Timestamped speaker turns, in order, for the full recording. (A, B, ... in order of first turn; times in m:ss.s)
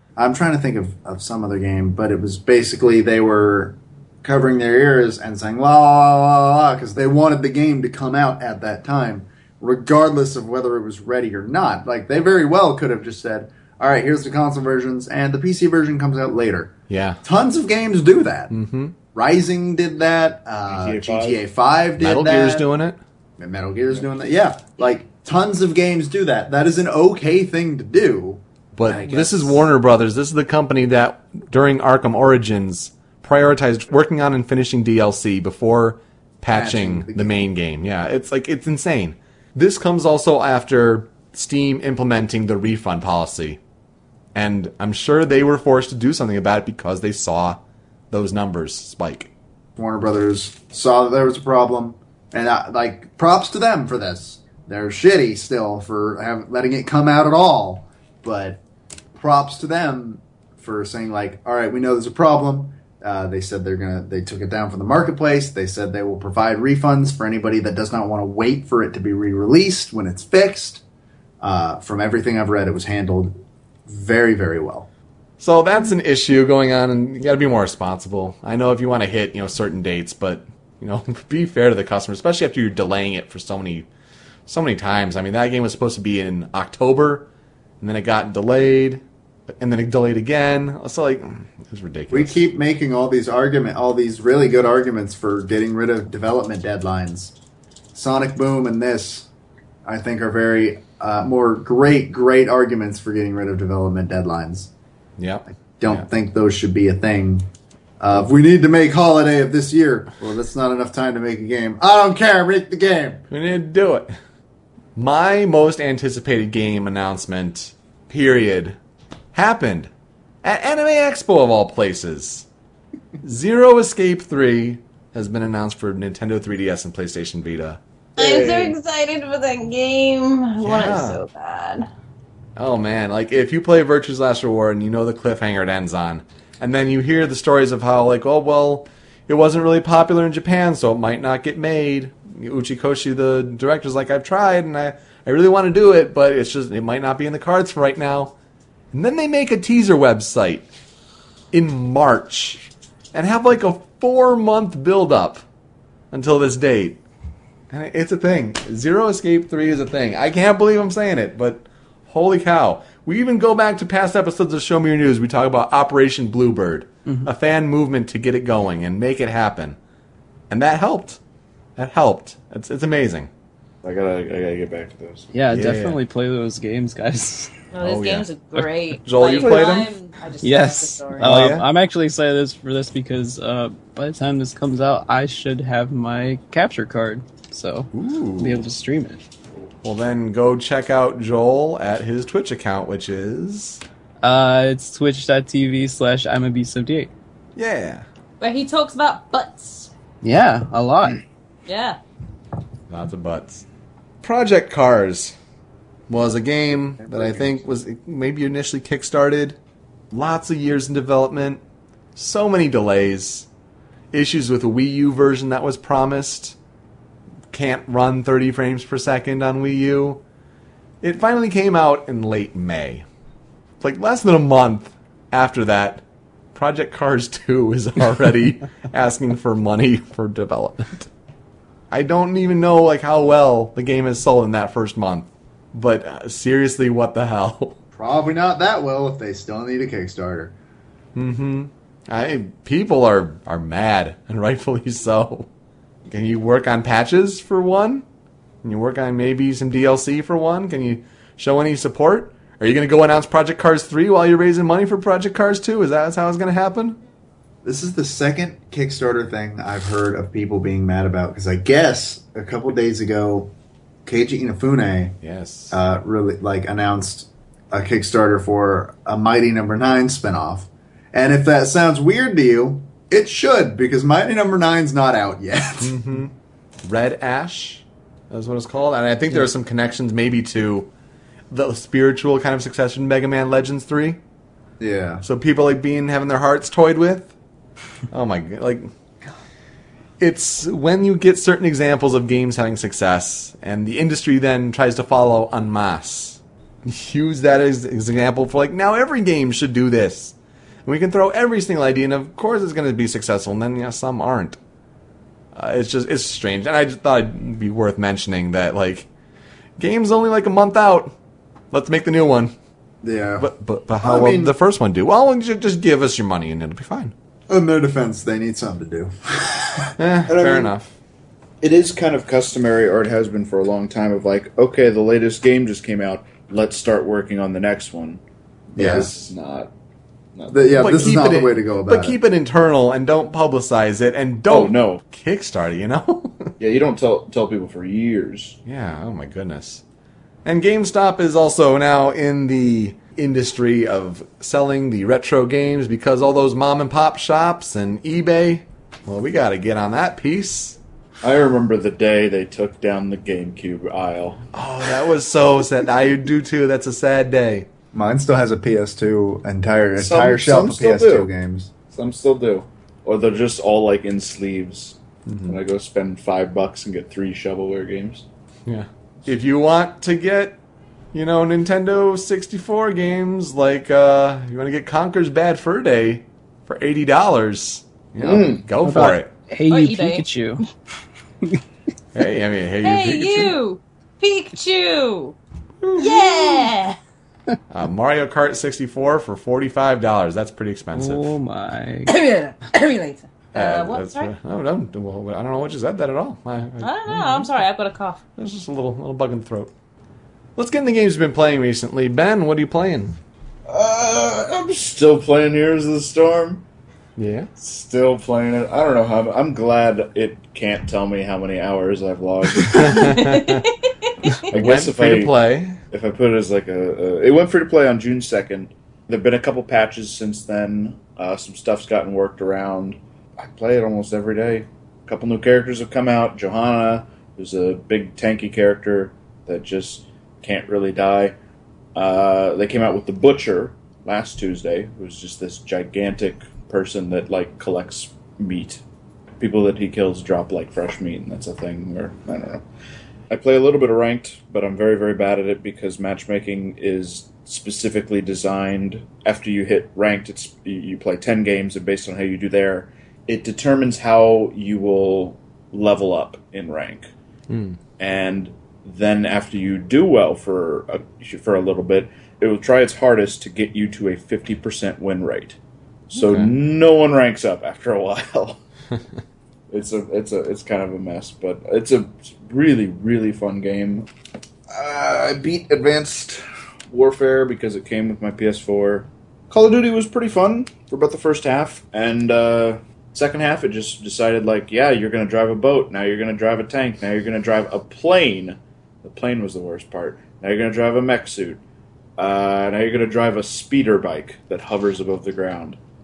0:00.2-0:18.5 A
0:16.9-0:17.2 B
0:18.5-0:19.0 B
0:19.1-0:22.7 A
0:20.7-0:21.4 C
0:22.0-0:23.0 B
0:23.4-0:29.6 A
0:28.7-0:43.6 B
0:36.5-0:37.4 A
0:44.3-0:47.6 B
0:48.1-0:49.3 B
0:49.8-0:58.6 A
0:59.1-1:10.8 A
1:11.4-1:13.4 A
1:13.9-1:14.9 A
1:15.4-1:23.9 B
1:24.5-1:27.3 B
1:27.8-1:29.0 B
1:29.6-1:32.4 B
1:32.1-1:37.3 A
1:37.9-1:39.3 A
1:39.8-1:44.7 A
1:45.2-1:46.0 B
1:45.8-1:47.4 A
1:48.0-1:53.2 A
1:53.3-1:54.1 B
1:55.0-1:58.8 B
1:59.3-1:59.9 B
2:00.4-2:02.5 B
2:03.2-2:07.8 B
2:08.2-2:11.9 D
2:08.2-2:08.7 C
2:10.6-2:11.2 B
2:12.6-2:28.3 B
2:28.9-2:30.7 B
2:31.5-2:35.4 B
2:36.1-2:37.0 B
2:37.7-2:49.8 B
2:50.5-2:51.2 B
2:51.8-2:53.3 B
2:53.8-2:55.3 C
2:55.3-2:57.5 E
2:55.5-2:56.0 B
2:57.7-3:01.4 D
2:57.8-2:58.3 B
2:58.5-2:59.7 E
2:59.0-2:59.9 B
3:00.4-3:09.2 E
3:01.2-3:01.6 B
3:07.9-3:08.6 B
3:09.8-3:13.8 B
3:14.2-3:17.1 E
3:17.6-3:18.0 B
3:18.4-3:19.9 D
3:20.2-3:21.2 E
3:21.6-3:22.0 D
3:22.9-3:23.6 B
3:24.2-3:25.4 B
3:26.1-3:29.6 B
3:27.0-3:27.5 A
3:30.1-3:31.6 B
3:32.2-3:33.5 B
3:34.1-3:36.6 B
3:37.5-3:40.2 B
3:41.0-3:43.0 B
3:43.8-3:51.1 B
3:51.9-3:57.8 B
3:58.0-4:00.5 A
4:01.1-4:05.5 B
4:06.1-4:08.0 B
4:08.6-4:17.0 B
4:17.6-4:23.5 A
4:24.0-4:25.2 A
4:25.2-4:25.8 B
4:25.7-4:36.0 A
4:35.8-4:40.9 B
4:41.5-4:44.2 B
4:44.8-4:45.2 A
4:45.2-4:47.3 B
4:48.1-4:48.9 B
4:50.2-5:04.6 B
5:05.5-5:09.1 B
5:09.8-5:11.1 B
5:11.7-5:12.5 B
5:13.0-5:14.5 A
5:13.4-5:17.1 B
5:17.5-5:20.7 A
5:20.0-5:20.9 B
5:21.6-5:28.2 C
5:28.7-5:29.1 A
5:28.8-5:29.7 C
5:28.8-5:29.1 B
5:30.3-5:31.2 C
5:30.5-5:32.2 A
5:30.8-5:36.5 B
5:34.5-5:35.0 C
5:36.6-5:38.6 C
5:38.6-5:39.8 B
5:40.4-5:50.8 B
5:51.2-5:54.4 C
5:54.5-5:57.7 B
5:57.9-6:01.7 A
6:00.0-6:01.3 C
6:01.9-6:08.2 C
6:05.3-6:05.6 B
6:08.6-6:10.6 B
6:11.1-6:19.3 B
6:18.2-6:18.6 C
6:18.8-6:20.6 E
6:19.7-6:20.2 D
6:22.1-6:23.6 B
6:22.8-6:25.4 D
6:25.8-6:26.7 B
6:25.9-6:27.0 D
6:27.7-6:31.4 B
6:30.9-6:32.1 E
6:32.1-6:34.3 D
6:33.5-6:37.6 B
6:36.8-6:38.2 D
6:38.4-6:39.7 B
6:40.6-6:43.2 B
6:43.7-6:46.6 C
6:47.2-6:47.5 B
6:47.6-6:53.2 C
6:52.8-6:53.7 B
6:53.0-6:53.7 D
6:54.5-6:55.3 C
6:54.5-6:55.8 B
6:55.9-7:11.3 C
7:11.9-7:18.8 C
7:19.4-7:22.6 C
7:23.3-7:37.1 C
7:37.5-7:37.8 B
7:38.0-7:45.6 C
7:46.1-7:48.6 C
7:46.2-7:46.5 B
7:49.7-7:54.1 C
7:54.7-8:11.6 C
8:12.2-8:15.8 C